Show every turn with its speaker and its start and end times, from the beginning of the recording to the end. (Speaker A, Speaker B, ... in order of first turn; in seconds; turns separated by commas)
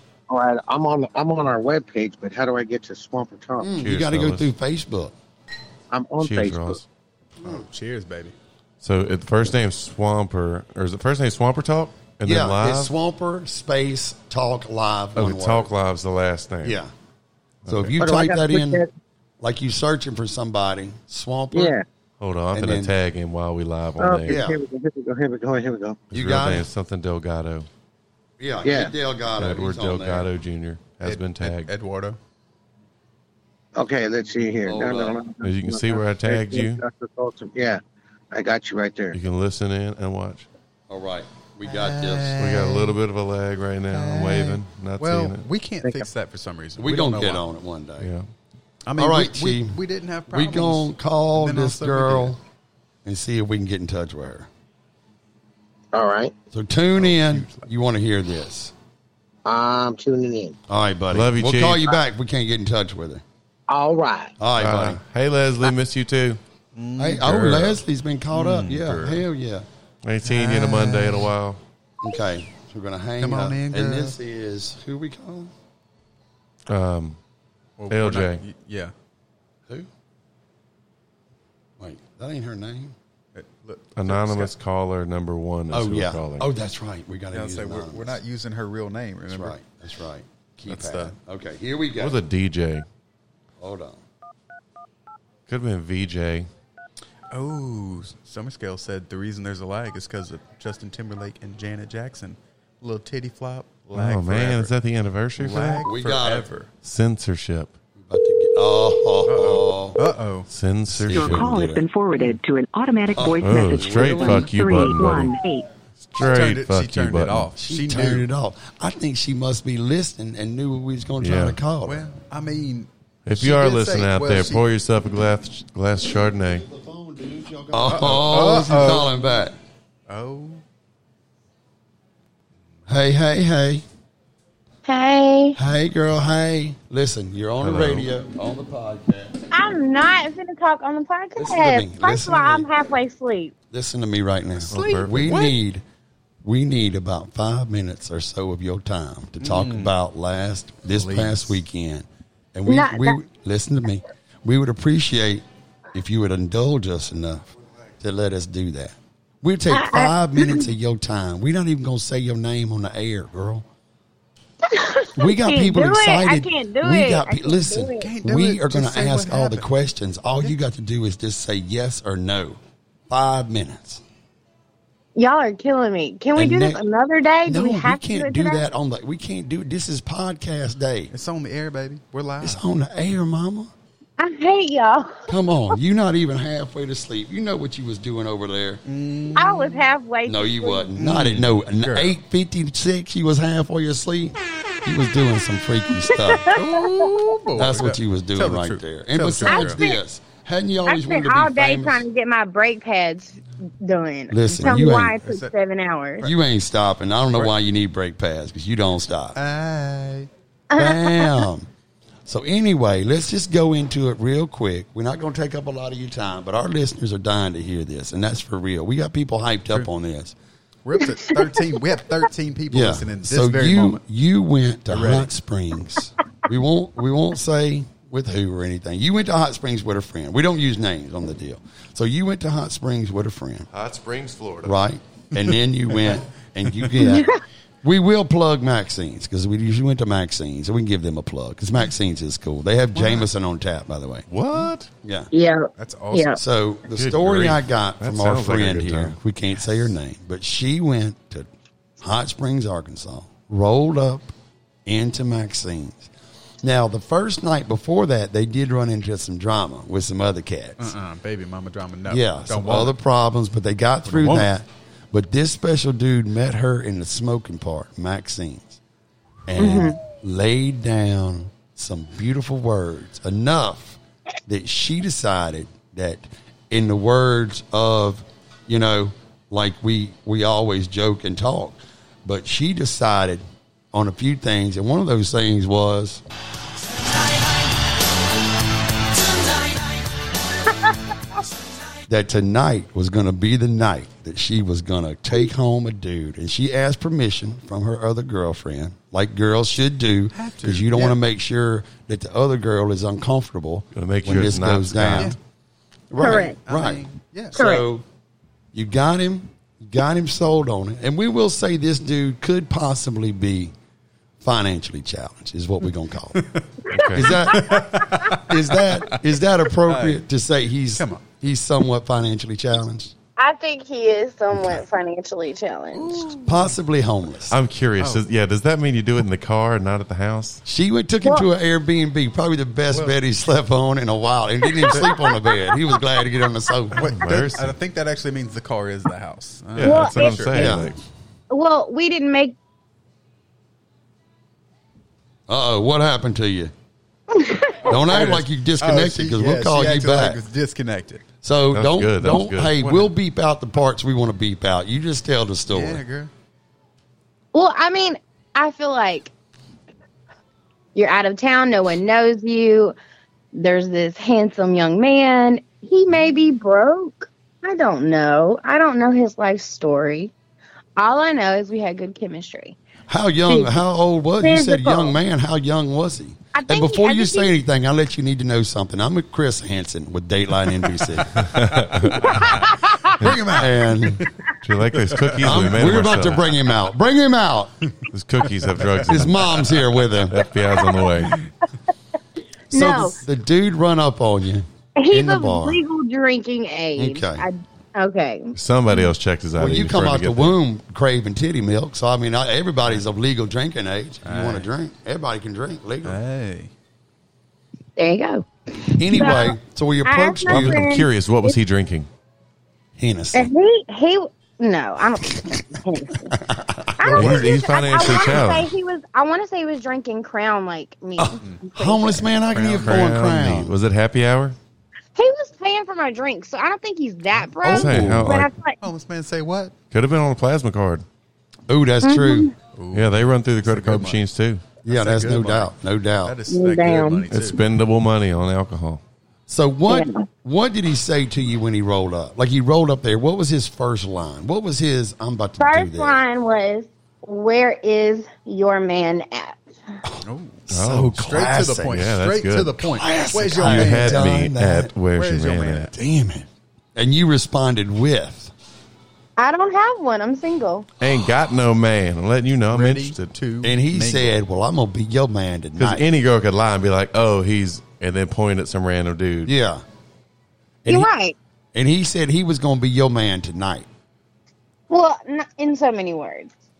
Speaker A: 0.3-3.8, Speaker B: 3.6-5.1, Speaker C: 3.8-4.5, Speaker A: 5.9-6.8, Speaker C: 6.2-6.8, Speaker D: 7.4-8.3, Speaker C: 8.8-12.9, Speaker B: 12.2-15.7, Speaker C: 15.2-16.8, Speaker B: 16.6-16.9, Speaker C: 17.6-17.9, Speaker B: 17.7-18.8, Speaker A: 18.0-18.9, Speaker B: 19.4-21.8, Speaker A: 21.5-21.8, Speaker C: 22.2-24.4, Speaker B: 22.5-22.9, Speaker A: 24.0-26.0, Speaker B: 24.3-24.6, Speaker C: 26.1-27.7, Speaker B: 26.1-26.7, Speaker B: 28.4-30.3, Speaker A: 28.6-28.9, Speaker C: 29.4-31.7, Speaker D: 31.0-32.2, Speaker A: 33.8-37.8, Speaker B: 34.6-35.1, Speaker C: 35.4-36.8, Speaker A: 38.3-39.2, Speaker C: 39.1-40.5, Speaker B: 40.9-42.4, Speaker D: 41.6-43.0, Speaker C: 42.4-45.4, Speaker D: 43.9-47.4, Speaker B: 46.8-48.1, Speaker C: 48.0-48.2, Speaker D: 48.8-52.3, Speaker B: 49.0-49.8, Speaker B: 50.3-52.4, Speaker B: 53.0-54.5, Speaker A: 55.9-56.3, Speaker B: 56.5-58.7, Speaker A: 59.5-60.5, Speaker B: 60.7-63.2, Speaker C: 61.1-62.0, Speaker A: 63.7-64.3, Speaker B: 64.4-65.0, Speaker C: 64.6-66.4, Speaker D: 66.8-67.7, Speaker B: 67.0-69.7, Speaker C: 67.3-67.6, Speaker D: 68.3-69.2, Speaker C: 70.0-71.6, Speaker D: 70.2-71.3, Speaker B: 72.0-75.5, Speaker D: 73.2-74.2, Speaker C: 76.7-77.2, Speaker D: 77.8-78.9, Speaker C: 77.9-78.4, Speaker B: 81.8-82.9, Speaker D: 83.3-84.5, Speaker C: 84.0-86.5, Speaker B: 85.7-88.2, Speaker D: 87.3-89.6, Speaker B: 89.3-92.2, Speaker D: 90.7-91.1, Speaker C: 92.0-92.8, Speaker B: 93.6-94.0, Speaker C: 95.5-96.5, Speaker D: 97.3-104.7, Speaker C: 103.9-105.9, Speaker D: 105.4-106.7, Speaker B: 105.8-106.5, Speaker C: 106.8-107.7, Speaker B: 108.1-110.0, Speaker D: 109.2-110.5, Speaker C: 110.5-111.5, Speaker B: 110.9-111.9, Speaker E: 111.1-115.7, Speaker B: 113.1-115.1, Speaker C: 113.4-115.3, Speaker C: 116.1-117.5, Speaker D: 116.2-118.3, Speaker B: 117.6-122.0, Speaker C: 121.2-121.6, Speaker D: 121.8-124.6, Speaker C: 123.2-126.7, Speaker B: 126.7-129.5, Speaker D: 127.8-129.2, Speaker D: 130.1-130.6, Speaker B: 132.9-133.8, Speaker F: 134.8-135.6, Speaker B: 135.6-139.4, Speaker C: 137.6-138.1, Speaker F: 139.5-143.5, Speaker B: 141.3-142.7, Speaker B: 143.7-145.8, Speaker D: 144.7-145.5, Speaker C: 144.7-145.2, Speaker B: 146.4-157.5, Speaker D: 149.4-149.9, Speaker D: 150.9-151.6, Speaker F: 152.7-153.2, Speaker B: 158.0-163.6, Speaker F: 159.7-160.7, Speaker F: 164.7-168.1, Speaker B: 165.2-174.0, Speaker D: 168.0-169.7, Speaker F: 175.2-178.6, Speaker B: 176.3-176.8, Speaker B: 177.4-181.1, Speaker D: 181.1-182.6, Speaker B: 182.4-183.7, Speaker F: 184.2-185.3, Speaker B: 185.3-188.8, Speaker D: 188.8-189.8, Speaker F: 189.3-190.9, Speaker B: 190.2-196.6, Speaker D: 191.0-192.2, Speaker F: 196.1-196.5, Speaker D: 196.5-199.8, Speaker B: 197.5-202.0, Speaker F: 199.4-200.0, Speaker F: 200.8-206.3, Speaker B: 204.3-205.2, Speaker D: 204.7-205.5, Speaker B: 206.2-209.4, Speaker D: 209.3-210.3, Speaker F: 210.7-211.4, Speaker B: 210.8-211.7, Speaker B: 212.2-220.3, Speaker D: 220.8-224.0, Speaker B: 222.7-233.7, Speaker D: 224.9-225.3, Speaker C: 233.7-234.8, Speaker B: 234.6-237.3, Speaker F: 237.0-237.4, Speaker B: 237.8-244.3, Speaker D: 242.9-243.3, Speaker C: 244.3-244.9, Speaker B: 245.0-245.3, Speaker F: 245.3-246.4, Speaker D: 245.8-246.4, Speaker B: 246.4-251.5, Speaker C: 246.9-249.2, Speaker B: 252.0-254.3, Speaker B: 254.8-256.1, Speaker B: 256.6-260.9, Speaker D: 260.8-262.9, Speaker B: 262.1-268.8, Speaker D: 264.1-264.5, Speaker B: 269.5-286.2, Speaker F: 269.6-270.0, Speaker B: 292.1-305.4, Speaker D: 300.3-301.2, Speaker C: 303.9-305.3, Speaker B: 306.1-308.0, Speaker F: 306.2-306.6, Speaker D: 306.2-307.6, Speaker F: 307.5-307.8, Speaker B: 308.7-313.7, Speaker B: 314.4-316.4, Speaker D: 316.3-316.6, Speaker C: 316.9-317.4, Speaker B: 317.1-323.1, Speaker D: 317.2-319.2, Speaker D: 319.8-320.2, Speaker D: 321.0-321.2, Speaker F: 323.4-326.3, Speaker D: 325.9-326.7, Speaker B: 326.4-327.6, Speaker C: 327.5-330.6, Speaker D: 328.0-328.2, Speaker B: 330.6-337.1, Speaker D: 332.9-333.1, Speaker F: 334.8-335.8, Speaker D: 336.9-340.8, Speaker C: 337.0-337.7, Speaker C: 339.8-341.0, Speaker F: 339.8-340.4, Speaker B: 340.6-340.9, Speaker F: 341.5-342.6, Speaker B: 345.5-346.7, Speaker F: 347.3-347.9, Speaker B: 347.9-350.4, Speaker D: 347.9-351.2, Speaker B: 351.4-356.0, Speaker C: 351.7-352.7, Speaker D: 352.8-353.1, Speaker D: 355.7-356.3, Speaker F: 357.5-359.3, Speaker F: 360.9-362.9, Speaker F: 363.5-370.3, Speaker F: 371.0-372.8, Speaker B: 373.1-381.6, Speaker F: 373.5-373.7, Speaker F: 374.4-375.1, Speaker F: 376.5-377.5, Speaker C: 381.4-382.3, Speaker D: 382.0-382.7, Speaker F: 382.4-382.7, Speaker D: 383.2-384.2, Speaker B: 383.2-384.2, Speaker C: 384.6-386.5, Speaker D: 385.1-386.2, Speaker B: 385.4-387.8, Speaker C: 388.1-389.7, Speaker B: 389.1-390.4, Speaker C: 390.3-391.4, Speaker B: 392.7-395.8, Speaker F: 392.7-393.1, Speaker F: 395.0-399.0, Speaker B: 396.9-397.5, Speaker C: 398.5-400.6, Speaker B: 399.6-406.2, Speaker D: 404.2-404.7, Speaker D: 406.0-406.7, Speaker F: 408.0-411.6, Speaker B: 409.0-410.9, Speaker C: 410.5-412.1, Speaker B: 413.0-413.5, Speaker F: 413.3-416.3, Speaker B: 416.4-417.4, Speaker F: 417.0-422.3, Speaker C: 417.1-418.7, Speaker B: 421.2-423.7, Speaker D: 422.5-423.1, Speaker C: 422.7-424.6, Speaker F: 425.1-428.8, Speaker B: 427.6-428.3, Speaker C: 427.6-428.5, Speaker D: 428.8-429.7, Speaker C: 429.9-431.0, Speaker B: 431.7-432.5, Speaker F: 432.0-432.5, Speaker D: 432.7-434.2, Speaker C: 432.9-434.6, Speaker D: 434.8-437.6, Speaker B: 434.9-436.4, Speaker F: 436.5-437.2, Speaker C: 437.3-439.0, Speaker B: 439.5-446.2, Speaker F: 439.9-440.2, Speaker F: 445.6-449.8, Speaker B: 450.1-452.0, Speaker D: 450.2-454.3, Speaker C: 450.7-451.2, Speaker C: 451.9-452.8, Speaker B: 452.8-454.9, Speaker C: 453.6-455.9, Speaker D: 455.1-455.9, Speaker B: 455.9-458.5, Speaker F: 459.4-460.9, Speaker C: 461.0-463.3, Speaker D: 462.7-464.3, Speaker B: 463.6-466.1, Speaker C: 465.8-469.5, Speaker B: 469.4-469.8, Speaker B: 470.8-471.1, Speaker F: 470.9-471.4, Speaker B: 471.7-473.9, Speaker F: 474.9-476.5